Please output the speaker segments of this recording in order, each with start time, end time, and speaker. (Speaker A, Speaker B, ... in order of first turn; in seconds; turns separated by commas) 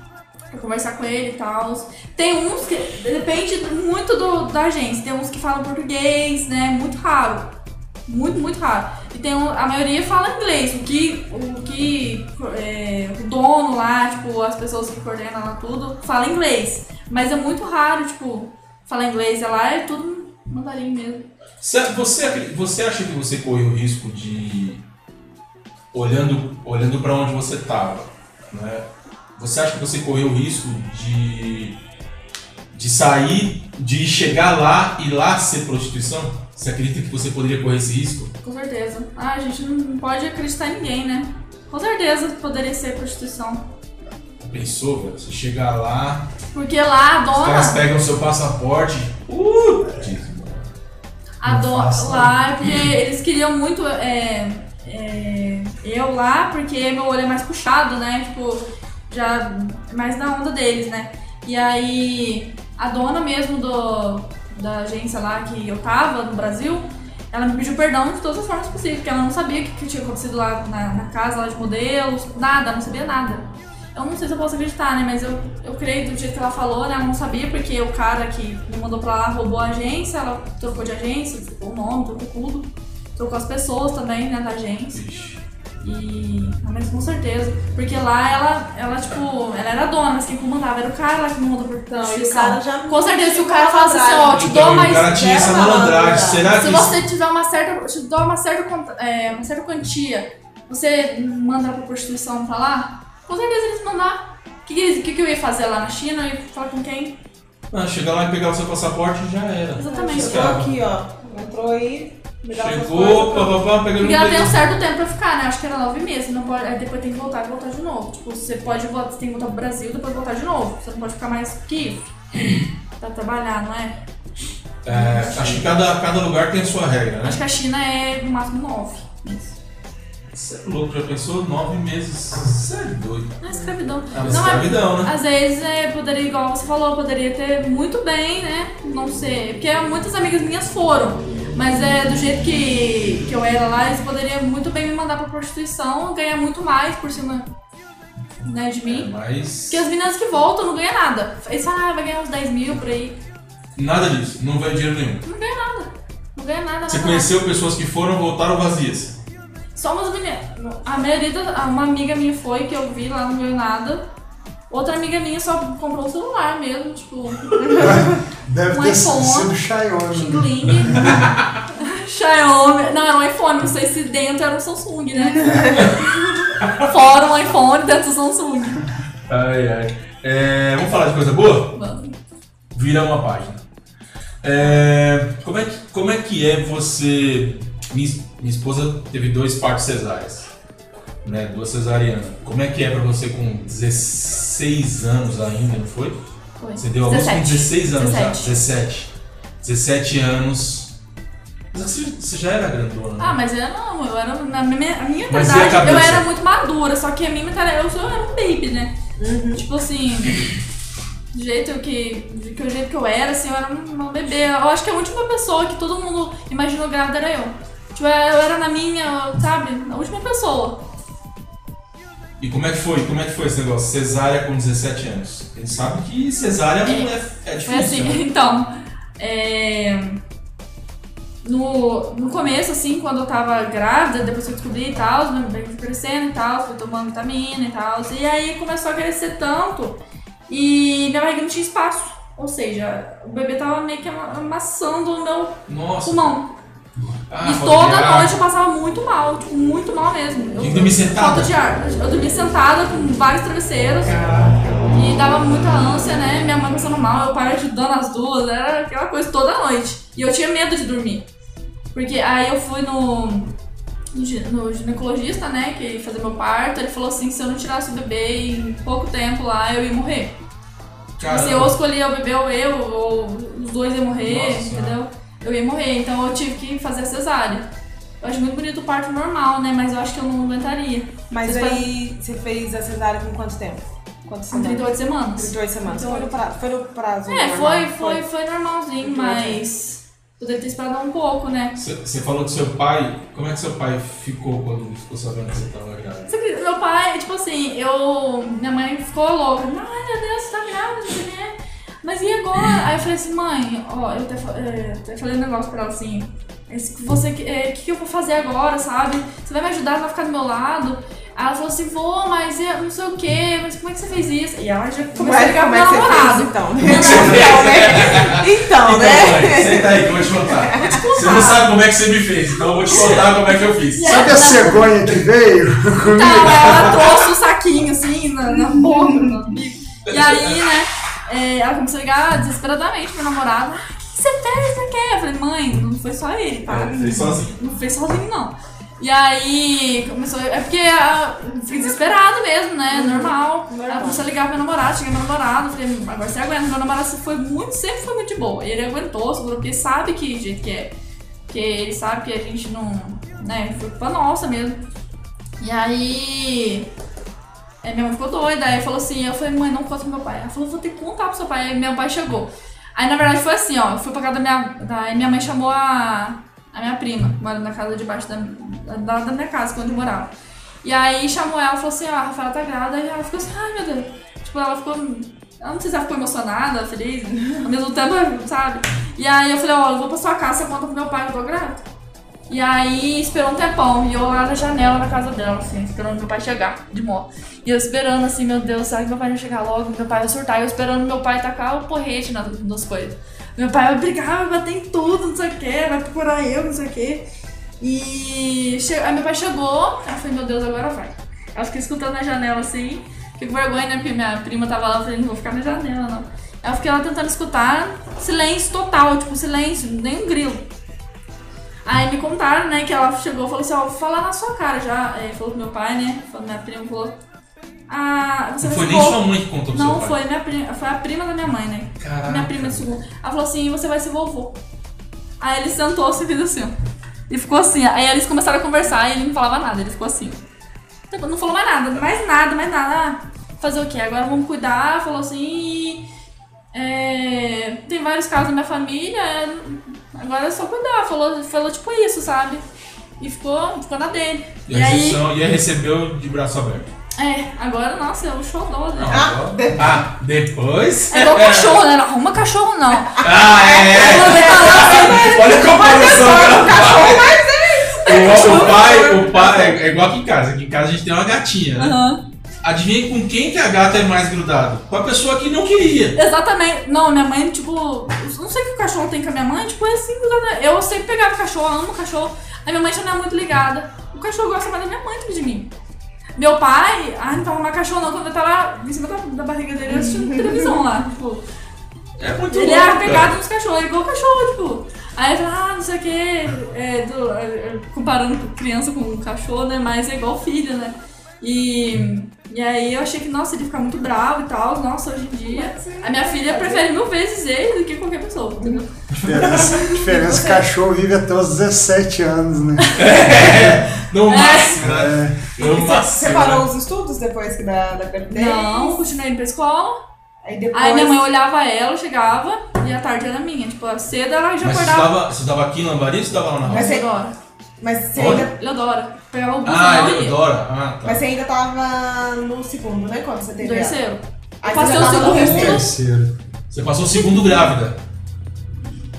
Speaker A: 0.5-7.5, Speaker A: 8.1-21.3, Speaker B: 21.6-24.8, Speaker B: 25.9-31.8, Speaker B: 32.7-38.3, Speaker A: 38.4-43.7, Speaker B: 44.5-46.3, Speaker A: 46.5-47.8, Speaker B: 47.4-50.7, Speaker A: 51.4-85.0, Speaker C: 51.5-52.4, Speaker B: 84.9-85.4, Speaker A: 85.8-95.9, Speaker D: 91.9-96.5, Speaker B: 94.3-97.0, Speaker A: 96.5-107.2, Speaker B: 107.7-110.7, Speaker A: 109.8-110.6, Speaker D: 109.8-113.5, Speaker B: 112.5-114.6, Speaker A: 114.0-122.2, Speaker A: 123.0-124.0, Speaker B: 124.8-127.4, Speaker A: 124.9-125.7, Speaker A: 127.2-129.6, Speaker B: 130.3-133.4, Speaker A: 133.4-147.5, Speaker B: 134.2-135.1, Speaker A: 148.4-149.1, Speaker B: 148.9-149.8, Speaker A: 149.7-153.2, Speaker B: 153.8-155.2, Speaker A: 155.2-157.3, Speaker B: 156.9-159.2, Speaker A: 159.8-164.1, Speaker A: 164.7-168.1, Speaker C: 167.8-171.3, Speaker A: 168.7-169.6, Speaker A: 170.1-178.8, Speaker B: 170.9-171.4, Speaker D: 175.4-175.9, Speaker B: 176.6-176.9, Speaker B: 179.3-181.8, Speaker A: 181.7-182.2, Speaker B: 182.7-183.6, Speaker B: 184.4-190.5, Speaker B: 191.2-196.2, Speaker A: 196.6-198.6, Speaker B: 196.8-200.9, Speaker B: 201.7-203.4, Speaker A: 203.2-209.0, Speaker B: 205.3-206.3, Speaker D: 209.2-209.6, Speaker A: 209.5-210.4, Speaker A: 211.3-220.8, Speaker B: 222.4-228.2, Speaker A: 226.9-227.1, Speaker A: 227.7-230.2, Speaker A: 231.4-246.5, Speaker B: 245.7-246.4, Speaker B: 247.3-248.3, Speaker A: 247.4-254.2, Speaker B: 250.6-251.5, Speaker B: 254.1-254.7, Speaker A: 254.9-261.2, Speaker A: 261.9-263.5, Speaker A: 264.1-270.4, Speaker B: 271.2-271.8, Speaker A: 271.3-277.7, Speaker B: 274.2-275.0, Speaker A: 278.2-281.9, Speaker D: 281.3-288.2, Speaker A: 284.5-286.4, Speaker A: 287.3-291.8, Speaker D: 289.0-289.6, Speaker B: 291.8-296.3, Speaker A: 296.3-317.7, Speaker D: 315.1-321.0, Speaker B: 316.8-324.3, Speaker A: 320.8-321.7, Speaker A: 322.9-325.0, Speaker C: 324.0-327.0, Speaker A: 326.0-350.9, Speaker B: 326.4-327.1, Speaker D: 328.5-329.4, Speaker B: 330.1-330.7, Speaker B: 336.7-337.6, Speaker D: 336.8-337.4, Speaker D: 342.9-344.3, Speaker A: 351.5-354.9, Speaker A: 355.6-356.9, Speaker A: 357.8-370.3, Speaker A: 370.8-381.8, Speaker A: 382.5-397.2, Speaker A: 397.8-410.7, Speaker A: 411.9-417.2, Speaker A: 417.9-424.6, Speaker B: 418.6-420.2, Speaker B: 422.0-422.9, Speaker A: 425.4-426.7, Speaker A: 427.3-430.4, Speaker A: 431.1-436.1, Speaker A: 436.7-442.6, Speaker A: 443.2-445.2, Speaker B: 444.7-446.9, Speaker A: 447.2-449.3, Speaker B: 449.0-451.8, Speaker D: 449.1-450.0, Speaker A: 451.1-453.2, Speaker B: 453.2-457.4, Speaker D: 453.2-459.7, Speaker A: 453.9-457.1, Speaker A: 458.0-459.7, Speaker B: 458.1-462.0, Speaker A: 461.8-462.2, Speaker B: 462.6-466.2, Speaker A: 466.1-475.7, Speaker A: 476.4-481.4, Speaker D: 479.9-480.8, Speaker B: 482.2-483.4, Speaker A: 482.5-498.9, Speaker D: 495.5-496.9, Speaker B: 499.1-499.9, Speaker C: 499.2-503.8, Speaker D: 499.9-500.6, Speaker B: 502.9-506.7, Speaker A: 504.3-504.8, Speaker C: 504.8-505.4, Speaker D: 505.6-509.0, Speaker A: 508.3-510.0, Speaker D: 510.4-511.2, Speaker A: 510.7-515.1, Speaker B: 514.6-517.0, Speaker D: 516.7-517.1, Speaker A: 516.7-517.4, Speaker D: 517.8-518.5, Speaker B: 518.1-518.5, Speaker A: 518.5-520.4, Speaker B: 519.6-521.2, Speaker D: 521.0-524.0, Speaker A: 523.6-525.9, Speaker D: 524.6-525.8, Speaker C: 524.8-526.3, Speaker B: 526.7-528.0, Speaker A: 527.1-527.7